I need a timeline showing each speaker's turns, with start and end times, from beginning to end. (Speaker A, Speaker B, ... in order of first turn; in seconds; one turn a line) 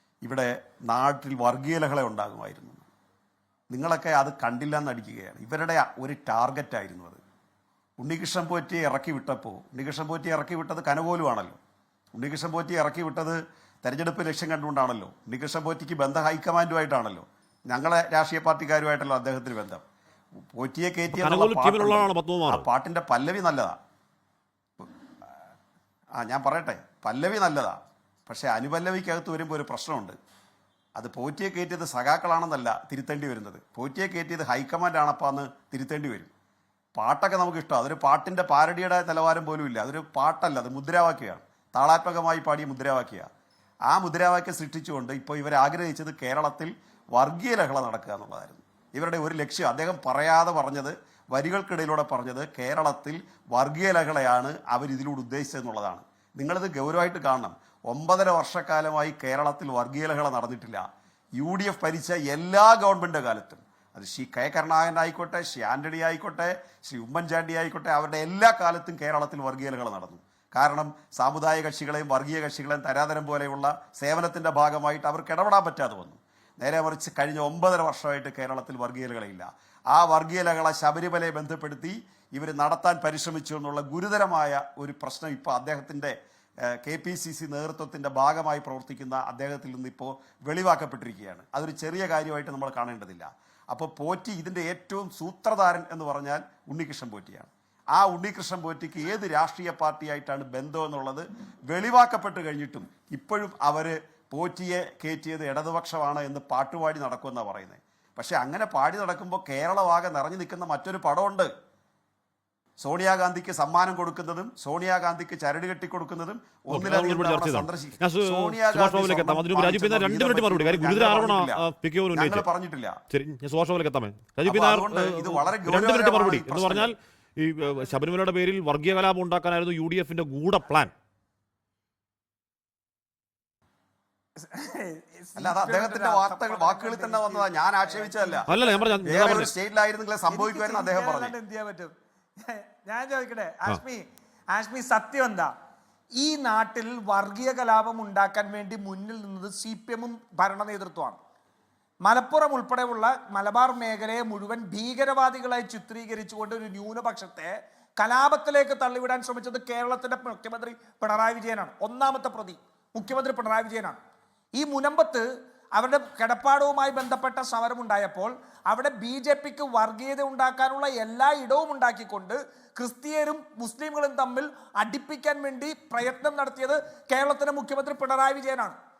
Speaker A: 0.2-2.9
Speaker A: 3.7-7.2
Speaker A: 8.0-11.6
Speaker A: 12.1-19.8
Speaker A: 20.5-23.8
Speaker B: 21.1-22.7
Speaker A: 26.2-30.2
Speaker A: 31.0-36.3
Speaker A: 37.0-43.3
Speaker A: 43.9-86.2
Speaker A: 86.7-111.5
Speaker A: 112.8-123.0
Speaker B: 116.7-122.5
Speaker B: 123.1-130.9
Speaker A: 124.5-126.9
Speaker C: 134.4-139.1
Speaker A: 135.4-138.5
Speaker B: 138.5-139.5
Speaker A: 139.1-141.3
Speaker C: 140.3-145.5
Speaker C: 146.2-151.2
Speaker C: 152.1-164.0
Speaker C: 164.5-178.8